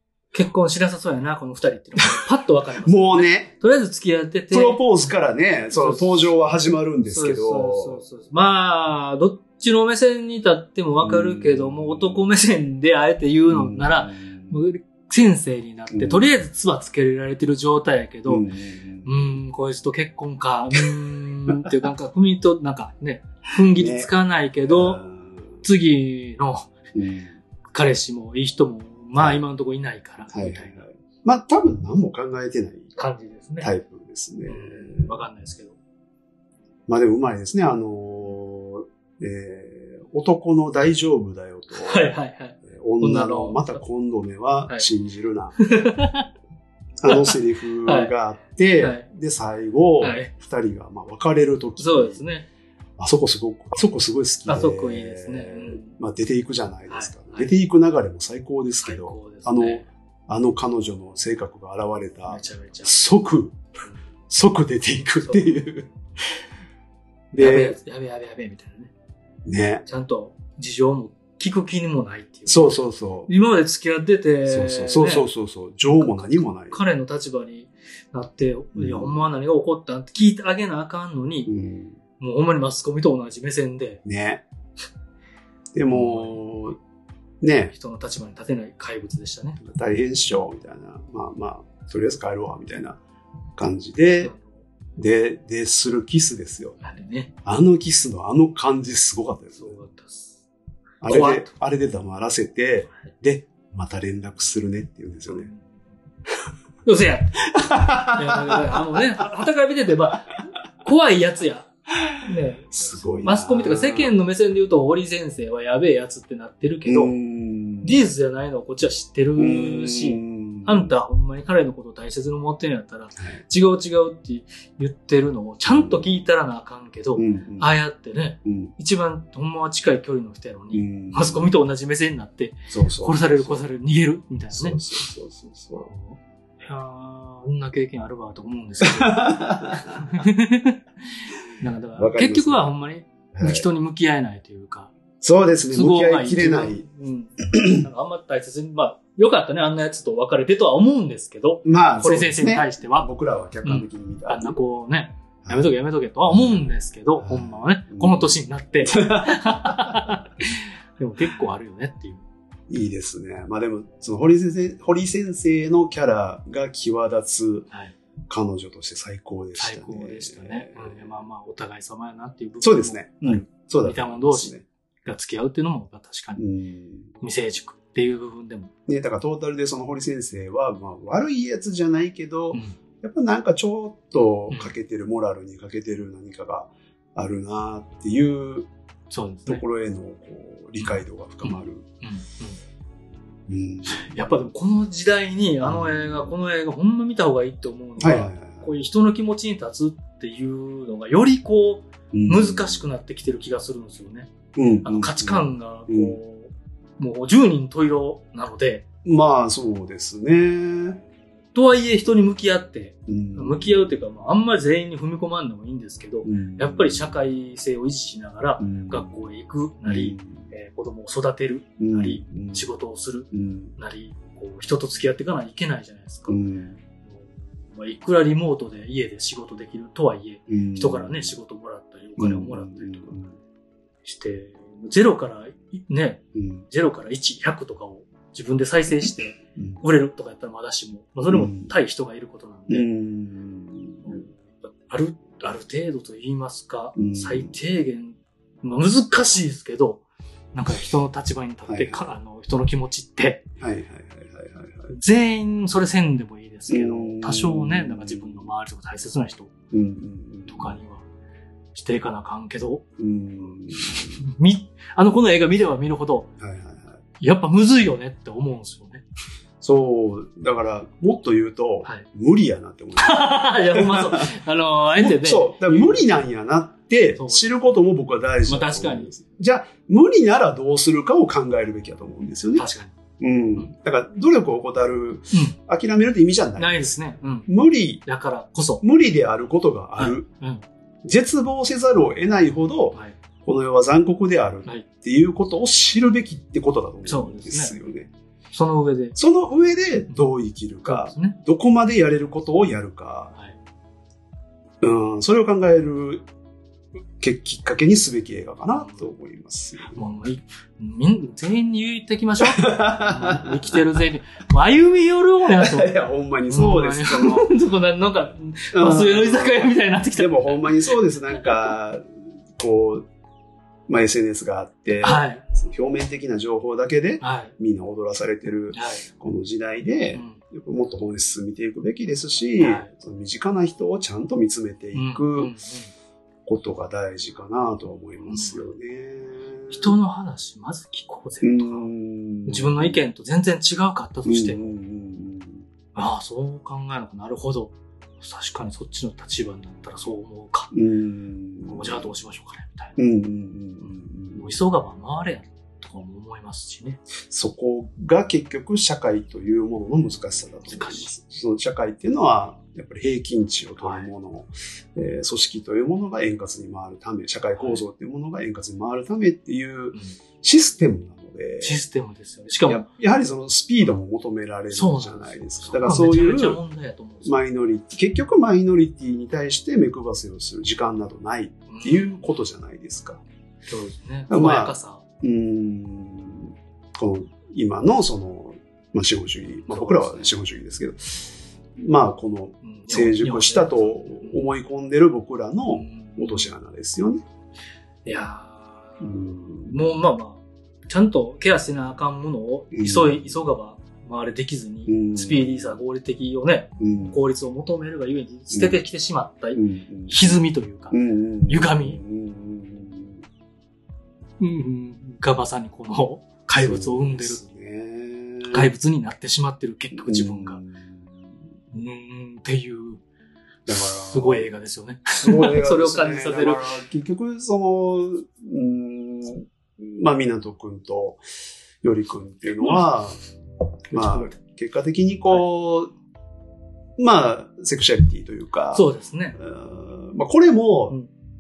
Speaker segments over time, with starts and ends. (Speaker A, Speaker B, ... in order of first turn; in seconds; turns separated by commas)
Speaker A: 0.3-4.8, Speaker B: 2.8-3.5, Speaker B: 4.5-8.0, Speaker A: 5.7-6.3, Speaker A: 7.1-18.5, Speaker B: 11.0-12.3, Speaker B: 13.5-14.6, Speaker B: 15.9-16.3, Speaker B: 18.3-19.4, Speaker A: 19.1-25.0, Speaker B: 21.5-21.7, Speaker B: 23.8-24.1, Speaker B: 24.7-25.6, Speaker A: 25.6-26.7, Speaker B: 26.9-27.4, Speaker A: 27.7-30.8, Speaker B: 29.2-29.4, Speaker B: 30.3-32.9, Speaker A: 33.0-33.7, Speaker B: 33.6-35.1, Speaker A: 34.5-35.8, Speaker B: 36.9-42.1, Speaker A: 41.8-43.8, Speaker B: 42.7-45.6, Speaker A: 45.6-46.3, Speaker B: 47.0-52.2, Speaker A: 47.1-48.1, Speaker A: 48.8-49.0, Speaker A: 50.0-50.3, Speaker A: 51.8-52.5, Speaker B: 53.0-63.6, Speaker A: 54.5-56.0, Speaker A: 56.9-57.5, Speaker A: 58.8-59.9, Speaker A: 62.3-62.9, Speaker B: 64.3-65.9, Speaker A: 65.2-65.6, Speaker B: 67.3-67.8, Speaker A: 67.4-68.9, Speaker B: 69.5-69.8, Speaker A: 69.9-72.8, Speaker B: 72.5-73.3, Speaker A: 73.3-75.3, Speaker B: 74.5-76.8, Speaker A: 76.0-81.5, Speaker B: 78.8-79.3, Speaker B: 81.5-82.0, Speaker A: 82.2-84.0, Speaker B: 84.0-84.4, Speaker B: 85.7-86.8, Speaker A: 85.9-86.4, Speaker B: 87.4-87.7, Speaker A: 87.7-89.6, Speaker B: 89.6-93.0, Speaker B: 93.6-94.3, Speaker A: 94.2-94.6, Speaker B: 95.0-96.8, Speaker A: 96.8-97.3, Speaker B: 97.5-99.8, Speaker A: 99.6-100.4, Speaker B: 101.0-105.5, Speaker A: 101.1-101.5, Speaker A: 105.3-105.6, Speaker A: 106.8-111.7, Speaker B: 107.5-109.2, Speaker A: 112.2-117.1, Speaker B: 112.7-114.2, Speaker B: 116.8-118.0, Speaker A: 117.8-134.8, Speaker B: 119.4-120.9, Speaker B: 125.7-126.1, Speaker B: 127.2-127.7, Speaker B: 128.4-128.7, Speaker B: 130.7-131.5, Speaker B: 132.7-133.6, Speaker B: 134.5-135.9, Speaker A: 135.9-140.8, Speaker B: 138.8-140.0, Speaker A: 141.6-144.9, Speaker B: 142.0-142.7, Speaker B: 143.3-143.7, Speaker B: 145.2-146.9, Speaker A: 145.7-153.1, Speaker B: 147.5-147.9, Speaker B: 151.7-154.6, Speaker A: 153.6-162.2, Speaker B: 156.3-156.6, Speaker B: 157.2-160.2, Speaker B: 162.7-167.7, Speaker B: 168.3-171.2, Speaker A: 169.6-176.4, Speaker B: 172.6-174.7, Speaker B: 176.4-177.1, Speaker A: 177.2-178.7, Speaker B: 178.9-188.7, Speaker A: 189.1-189.6, Speaker B: 189.5-191.9, Speaker A: 190.8-192.6, Speaker B: 193.5-194.1, Speaker A: 193.9-204.3, Speaker B: 195.6-196.3, Speaker B: 198.0-198.7, Speaker B: 202.1-202.8, Speaker B: 204.6-206.2, Speaker A: 204.8-208.8, Speaker B: 209.1-211.0, Speaker A: 211.6-226.4, Speaker B: 213.1-214.0, Speaker B: 216.2-217.2, Speaker B: 218.6-219.3, Speaker B: 219.8-220.4, Speaker B: 221.8-222.7, Speaker B: 223.3-223.7, Speaker B: 226.3-226.8, Speaker A: 227.0-233.2, Speaker B: 230.5-231.3, Speaker B: 232.2-233.4, Speaker A: 234.1-242.9, Speaker B: 236.3-236.7, Speaker B: 239.6-239.8, Speaker B: 241.3-241.7, Speaker B: 242.7-244.3, Speaker A: 244.4-253.4, Speaker B: 247.0-247.6, Speaker B: 251.7-252.1, Speaker B: 253.6-254.9, Speaker A: 254.9-259.5, Speaker B: 256.7-258.5, Speaker B: 259.7-260.8, Speaker A: 260.5-261.0, Speaker A: 261.7-262.8, Speaker B: 263.0-264.2, Speaker A: 263.8-266.3, Speaker B: 266.4-267.0, Speaker A: 267.2-269.0, Speaker B: 269.6-274.3, Speaker A: 273.0-276.0, Speaker B: 275.0-282.7, Speaker A: 277.2-277.6, Speaker A: 278.5-279.1, Speaker A: 282.6-282.9, Speaker B: 283.2-286.9, Speaker A: 286.6-287.5, Speaker B: 287.5-288.0, Speaker A: 288.1-288.8, Speaker B: 288.8-290.3, Speaker A: 290.0-290.6, Speaker B: 291.0-298.1, Speaker A: 297.1-297.8, Speaker A: 298.5-299.2, Speaker B: 299.2-303.4, Speaker A: 300.9-301.4, Speaker B: 304.8-306.3, Speaker B: 307.2-310.0, Speaker A: 308.8-309.0, Speaker A: 309.9-315.9, Speaker B: 312.4-313.9, Speaker B: 315.5-317.5, Speaker A: 316.5-321.4, Speaker B: 318.7-322.0, Speaker B: 322.6-323.1, Speaker B: 323.9-335.6, Speaker A: 325.0-325.4, Speaker A: 327.2-327.5, Speaker A: 328.7-329.1, Speaker A: 330.1-330.4, Speaker A: 332.6-332.9, Speaker A: 334.9-335.9, Speaker B: 336.5-339.9, Speaker A: 338.3-338.6, Speaker A: 339.7-341.9, Speaker B: 341.4-343.0, Speaker A: 342.5-344.7, Speaker B: 344.2-345.6, Speaker A: 345.9-350.7, Speaker B: 350.7-352.1, Speaker A: 351.7-352.9, Speaker B: 353.0-354.5, Speaker A: 354.4-357.0, Speaker B: 357.3-371.8, Speaker A: 360.7-361.1, Speaker A: 363.8-364.1, Speaker A: 371.6-372.9, Speaker B: 372.7-376.6, Speaker A: 374.7-377.4, Speaker B: 377.2-383.2, Speaker A: 381.7-382.2, Speaker A: 383.7-385.0, Speaker B: 384.3-397.2, Speaker A: 389.7-390.4, Speaker A: 392.6-394.5, Speaker A: 395.7-396.5, Speaker A: 398.1-412.0, Speaker B: 399.0-399.8, Speaker B: 402.7-403.4, Speaker B: 404.9-405.8, Speaker B: 406.8-407.2, Speaker B: 408.5-408.8, Speaker B: 409.6-413.2, Speaker A: 414.4-417.4, Speaker B: 416.6-418.7, Speaker A: 418.5-420.6, Speaker B: 419.9-421.2, Speaker A: 421.7-423.0, Speaker B: 423.7-424.5, Speaker A: 423.8-426.8, Speaker B: 425.2-431.2, Speaker B: 431.8-433.2, Speaker A: 432.6-432.9, Speaker A: 433.9-434.4, Speaker B: 433.9-435.9, Speaker B: 437.0-441.0, Speaker A: 438.7-439.4